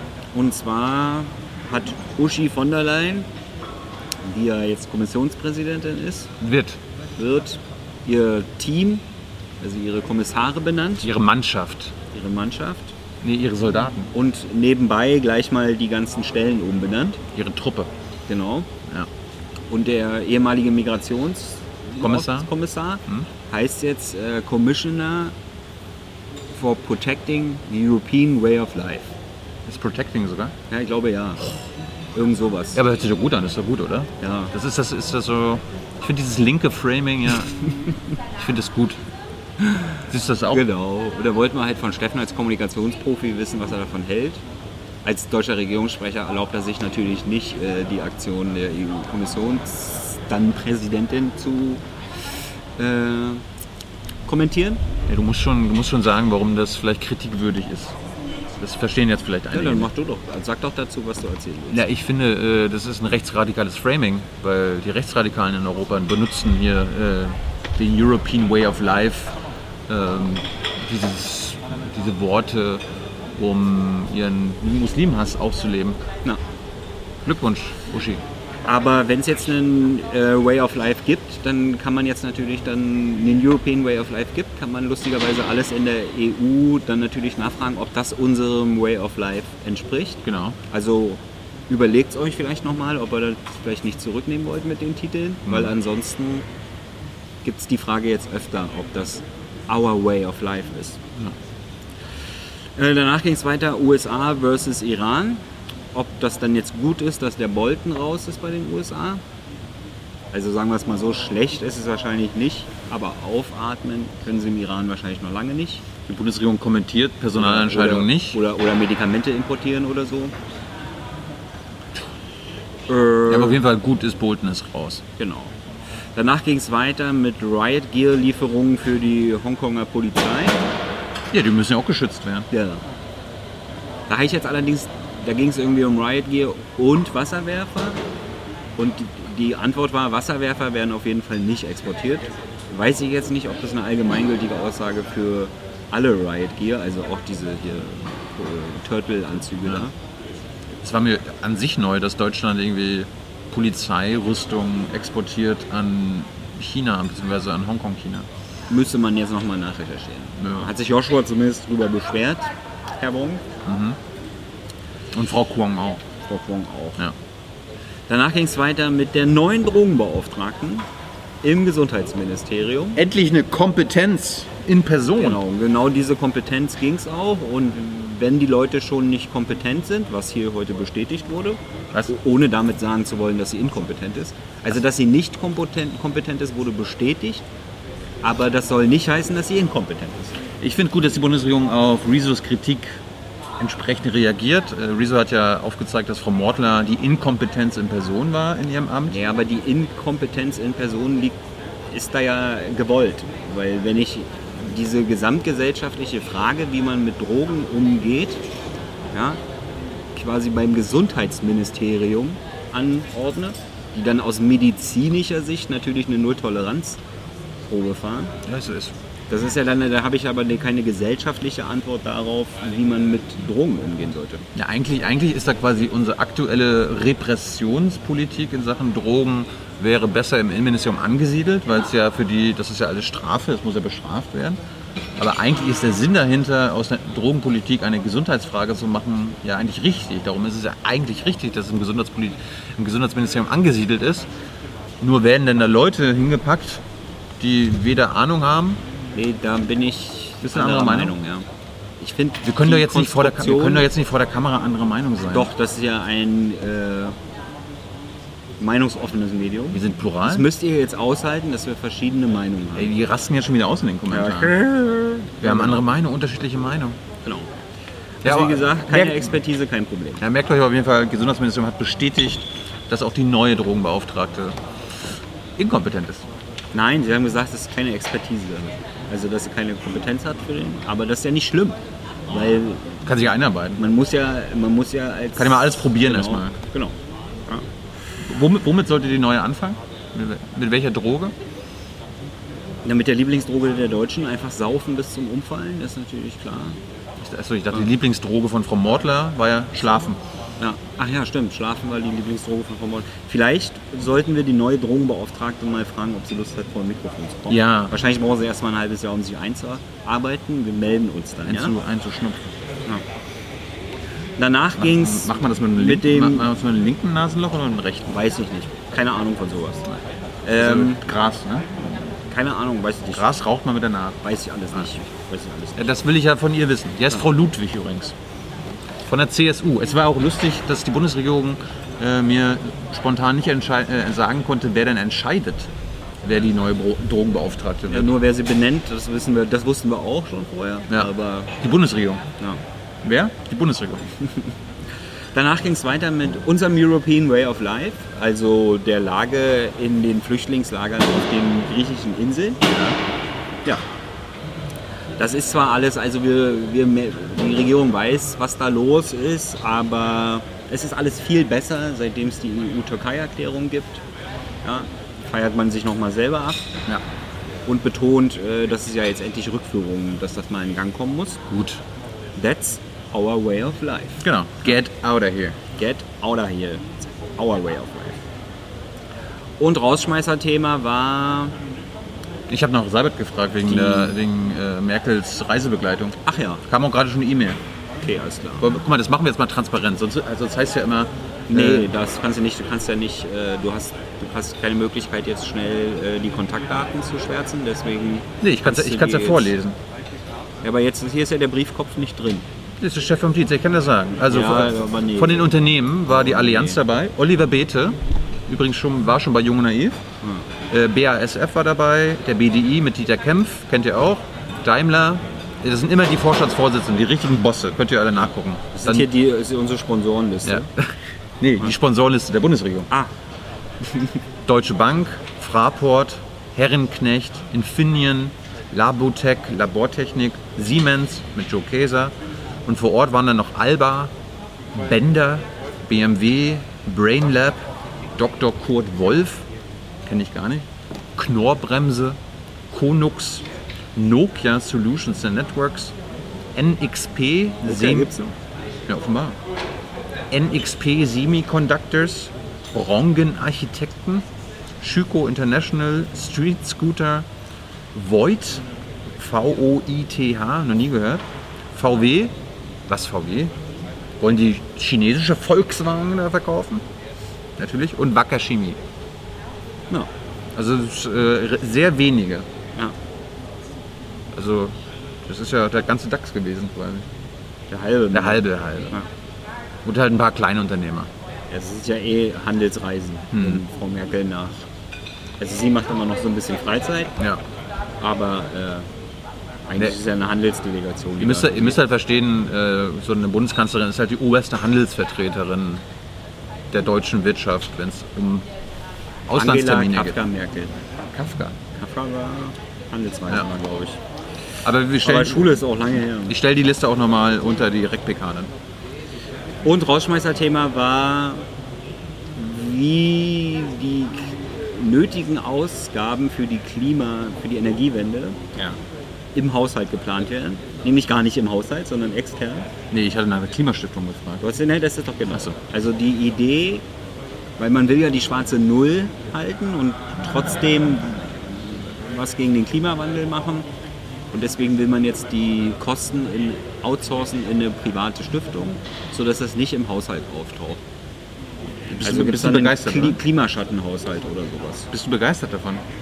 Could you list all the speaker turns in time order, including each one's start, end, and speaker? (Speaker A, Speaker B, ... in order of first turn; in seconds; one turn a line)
Speaker A: 0.3-3.3
Speaker A: 4.2-6.3
Speaker B: 6.4-6.8
Speaker A: 7.2-9.1
Speaker A: 9.6-11.1
Speaker B: 11.0-11.9
Speaker A: 12.1-12.9
Speaker B: 13.2-14.1
Speaker A: 14.1-17.2
Speaker B: 17.3-17.9
Speaker A: 18.3-18.7
Speaker A: 19.7-25.3
Speaker B: 22.0-22.5
Speaker A: 26.5-29.1
Speaker B: 29.6-30.5
Speaker A: 30.7-31.5
Speaker A: 32.1-32.8
Speaker B: 32.7-37.5
Speaker A: 34.2-34.5
Speaker B: 38.4-39.0
Speaker A: 39.6-40.0
Speaker B: 40.1-40.6
Speaker A: 40.5-44.4
Speaker A: 45.0-51.8
Speaker A: 52.7-53.4
Speaker A: 54.2-54.8
Speaker B: 55.0-57.9
Speaker B: 58.6-59.9
Speaker A: 59.5-61.8
Speaker B: 61.7-72.8
Speaker B: 73.3-76.0
Speaker B: 77.2-78.2
Speaker A: 78.6-96.5
Speaker B: 90.2-90.6
Speaker B: 95.5-95.7
Speaker A: 97.4-101.0
Speaker A: 102.7-109.2
Speaker A: 110.3-115.8
Speaker B: 116.1-118.4
Speaker A: 117.3-120.3
Speaker A: 122.9-123.6
Speaker B: 123.3-125.0
Speaker A: 125.2-125.5
Speaker A: 126.1-130.7
Speaker B: 131.3-132.5
Speaker A: 132.5-132.8
Speaker A: 134.1-138.0
Speaker A: 138.8-149.9
Speaker B: 150.8-158.3
Speaker A: 158.7-163.4
Speaker B: 160.4-160.7
Speaker B: 163.7-164.0
Speaker B: 165.1-166.0
Speaker A: 166.2-167.0
Speaker A: 168.1-170.9
Speaker A: 171.4-173.0
Speaker B: 172.9-175.4
Speaker A: 175.2-187.4
Speaker A: 188.2-190.4
Speaker B: 190.6-193.0
Speaker B: 193.6-199.2
Speaker A: 199.1-201.4
Speaker A: 201.9-208.4
Speaker A: 209.1-209.4
Speaker A: 210.1-217.0
Speaker A: 217.7-218.3
Speaker B: 218.4-218.9
Speaker A: 219.3-224.4
Speaker B: 224.5-234.6
Speaker B: 235.2-244.3
Speaker B: 245.0-246.8
Speaker B: 247.4-248.8
Speaker A: 249.1-251.5
Speaker B: 250.4-251.2
Speaker A: 252.0-253.9
Speaker B: 252.4-255.5
Speaker A: 255.3-257.2
Speaker A: 258.6-262.9
Speaker B: 259.7-260.5
Speaker B: 262.7-264.6
Speaker A: 264.1-265.8
Speaker B: 265.4-267.0
Speaker A: 267.2-267.5
Speaker B: 268.2-269.3
Speaker A: 268.2-270.2
Speaker B: 270.2-274.6
Speaker B: 275.6-276.2
Speaker A: 276.7-283.0
Speaker B: 283.0-283.8
Speaker A: 283.8-286.9
Speaker B: 285.4-286.6
Speaker B: 288.2-291.3
Speaker A: 292.8-296.8
Speaker B: 297.2-300.2
Speaker A: 300.6-311.7
Speaker B: 307.5-308.0
Speaker B: 311.4-312.5
Speaker A: 314.4-316.5
Speaker B: 314.8-318.1
Speaker A: 318.1-321.0
Speaker B: 320.5-321.7
Speaker A: 322.3-323.3
Speaker B: 323.1-324.9
Speaker A: 324.2-326.0
Speaker B: 325.8-328.1
Speaker B: 329.1-335.7
Speaker B: 336.2-338.1
Speaker A: 337.9-341.5
Speaker B: 340.9-342.2
Speaker B: 343.0-344.1
Speaker A: 345.3-352.6
Speaker B: 352.6-353.0
Speaker A: 355.2-364.0
Speaker A: 364.6-366.7
Speaker A: 367.6-371.4
Speaker B: 371.5-371.8
Speaker A: 372.4-374.2
Speaker B: 374.2-375.6
Speaker A: 375.8-378.2
Speaker A: 379.6-381.6
Speaker B: 382.5-387.6
Speaker A: 383.7-384.1
Speaker A: 386.2-386.6
Speaker A: 388.0-388.7
Speaker B: 388.6-391.9
Speaker A: 391.5-399.5
Speaker B: 398.4-399.8
Speaker A: 400.6-402.5
Speaker B: 402.8-410.0
Speaker A: 404.2-406.8
Speaker A: 410.2-410.5
Speaker B: 410.7-419.1
Speaker A: 418.7-420.7
Speaker B: 420.4-422.9
Speaker B: 424.5-432.1
Speaker B: 432.6-434.1
Speaker B: 434.7-437.6
Speaker B: 438.1-439.4
Speaker B: 440.1-442.2
Speaker B: 442.7-445.9
Speaker B: 446.5-448.1
Speaker A: 447.6-448.3
Speaker B: 448.9-449.4
Speaker B: 450.3-454.2
Speaker B: 454.8-457.3
Speaker B: 457.9-462.3
Speaker B: 462.9-463.5
Speaker B: 464.2-466.8
Speaker B: 467.6-468.8
Speaker B: 470.5-472.4
Speaker B: 474.3-477.1
Speaker A: 477.7-479.1
Speaker B: 478.1-479.0
Speaker B: 479.8-481.1
Speaker A: 481.5-484.7
Speaker B: 483.3-483.6
Speaker A: 485.4-487.1
Speaker A: 488.0-488.9
Speaker A: 489.7-491.8
Speaker B: 491.2-495.8
Speaker B: 496.7-498.5
Speaker B: 499.3-500.2
Speaker A: 499.3-500.7
Speaker B: 501.1-501.6
Speaker A: 501.7-504.0
Speaker B: 504.6-505.6
Speaker A: 505.0-506.4
Speaker B: 506.3-508.5
Speaker A: 509.6-511.4
Speaker A: 512.4-518.4
Speaker A: 519.3-522.7
Speaker B: 522.9-524.5
Speaker A: 524.4-526.8
Speaker B: 525.3-525.5
Speaker A: 527.6-533.7
Speaker A: 534.3-540.8
Speaker B: 541.9-543.2
Speaker A: 542.0-544.9
Speaker B: 544.9-545.8